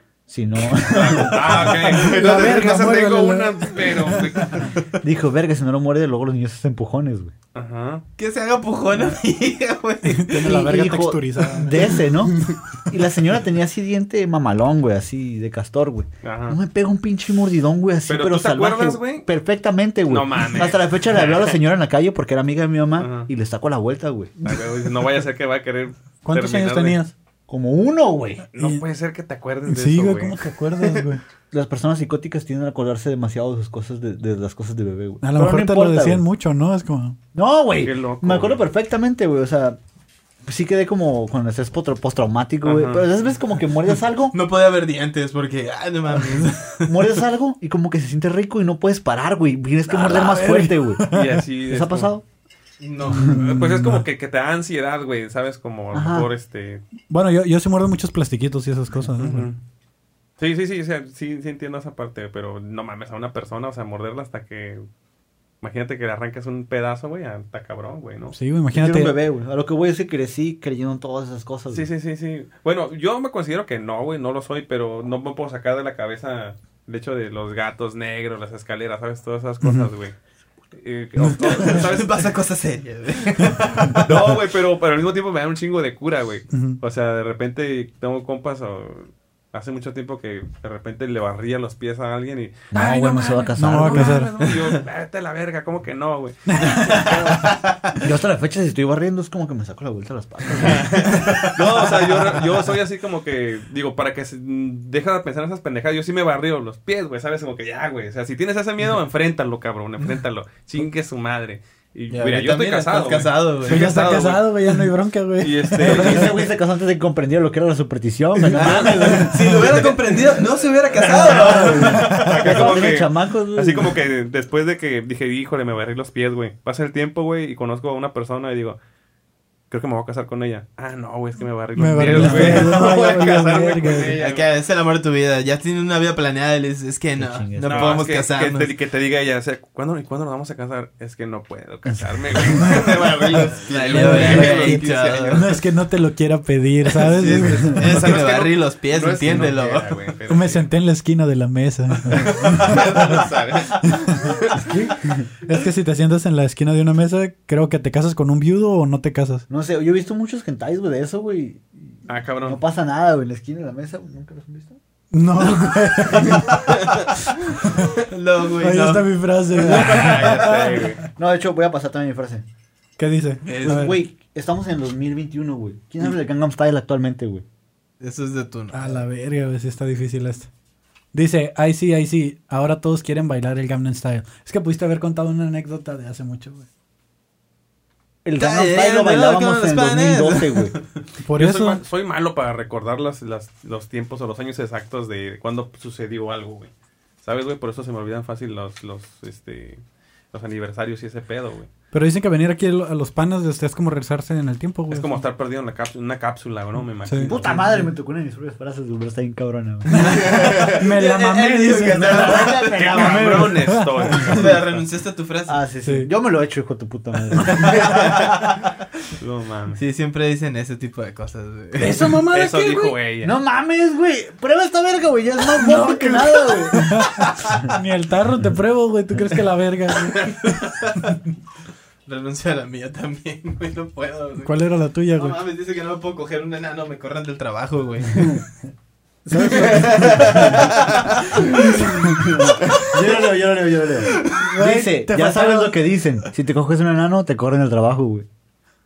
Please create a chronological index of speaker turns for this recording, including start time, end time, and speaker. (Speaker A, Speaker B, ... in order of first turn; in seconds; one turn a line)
Speaker A: 0.3-2.0
Speaker B: 0.8-4.8
Speaker C: 1.6-4.7
Speaker A: 5.0-7.3
Speaker B: 7.5-8.0
Speaker D: 8.2-10.6
Speaker C: 10.1-11.8
Speaker A: 10.4-24.4
Speaker B: 16.2-16.6
Speaker B: 18.1-19.3
Speaker B: 20.1-21.6
Speaker B: 23.0-23.3
Speaker B: 24.4-27.0
Speaker C: 26.2-27.1
Speaker A: 27.5-28.4
Speaker B: 28.5-31.1
Speaker C: 28.6-28.8
Speaker C: 29.7-31.2
Speaker A: 31.5-36.2
Speaker C: 35.2-37.2
Speaker A: 37.3-39.8
Speaker B: 37.8-38.6
Speaker A: 40.4-44.4
Speaker B: 42.6-43.1
Speaker D: 44.3-47.0
Speaker A: 46.9-51.1
Speaker C: 49.9-51.4
Speaker B: 51.1-52.1
Speaker A: 51.7-52.2
Speaker D: 52.8-53.3
Speaker C: 53.1-54.0
Speaker B: 53.1-56.8
Speaker A: 55.9-56.3
Speaker C: 57.1-59.5
Speaker B: 59.1-59.6
Speaker B: 60.4-64.8
Speaker B: 65.6-68.4
Speaker C: 68.3-69.2
Speaker A: 68.7-71.9
Speaker B: 71.7-80.2
Speaker C: 79.6-79.9
Speaker B: 80.8-82.3
Speaker C: 81.2-81.8
Speaker D: 81.6-84.4
Speaker B: 84.0-97.5
Speaker C: 86.5-86.8
Speaker A: 92.7-94.2
Speaker C: 92.8-94.3
Speaker C: 96.5-97.0
Speaker D: 97.0-97.5
Speaker A: 98.0-101.4
Speaker B: 100.5-114.5
Speaker D: 112.1-114.1
Speaker C: 113.6-116.4
Speaker B: 115.4-116.4
Speaker A: 115.8-119.8
Speaker D: 118.5-122.6
Speaker A: 121.0-124.0
Speaker B: 121.2-128.8
Speaker C: 122.0-122.3
Speaker B: 129.7-134.5
Speaker C: 131.8-134.2
Speaker D: 132.2-132.7
Speaker D: 134.2-138.7
Speaker A: 137.2-138.1
Speaker B: 137.6-145.6
Speaker C: 143.3-147.9
Speaker D: 143.6-145.6
Speaker D: 146.9-149.9
Speaker B: 147.7-150.7
Speaker C: 150.3-153.3
Speaker B: 152.1-154.6
Speaker C: 153.8-154.1
Speaker C: 154.6-159.4
Speaker A: 159.5-164.8
Speaker B: 162.1-162.6
Speaker C: 165.1-166.7
Speaker B: 166.4-167.0
Speaker D: 168.0-170.0
Speaker C: 168.6-170.8
Speaker B: 169.7-171.0
Speaker A: 170.0-170.6
Speaker A: 171.2-172.4
Speaker C: 173.0-173.9
Speaker D: 173.4-174.0
Speaker A: 173.6-177.4
Speaker D: 178.0-179.0
Speaker C: 178.7-180.5
Speaker C: 181.1-186.7
Speaker A: 188.2-190.8
Speaker D: 188.4-190.9
Speaker C: 191.2-191.8
Speaker B: 191.4-196.7
Speaker B: 197.2-199.8
Speaker B: 200.3-201.7
Speaker C: 201.9-205.2
Speaker B: 204.9-207.8
Speaker C: 207.1-207.3
Speaker A: 207.3-210.6
Speaker C: 209.9-212.5
Speaker B: 210.1-210.8
Speaker D: 210.1-213.4
Speaker A: 211.9-213.6
Speaker B: 212.6-214.8
Speaker C: 213.0-214.3
Speaker D: 214.2-215.6
Speaker A: 215.5-218.1
Speaker C: 215.8-216.1
Speaker D: 217.6-218.4
Speaker B: 217.7-218.4
Speaker B: 219.2-219.8
Speaker D: 219.8-222.2
Speaker C: 221.8-222.9
Speaker B: 222.3-223.4
Speaker A: 223.2-227.7
Speaker C: 225.6-230.3
Speaker D: 230.2-231.2
Speaker D: 232.1-234.6
Speaker C: 234.4-235.4
Speaker D: 235.1-238.4
Speaker C: 239.3-240.1
Speaker A: 239.3-240.7
Speaker D: 239.6-243.3
Speaker B: 239.6-240.8
Speaker A: 241.4-248.3
Speaker D: 244.0-244.5
Speaker C: 244.3-245.8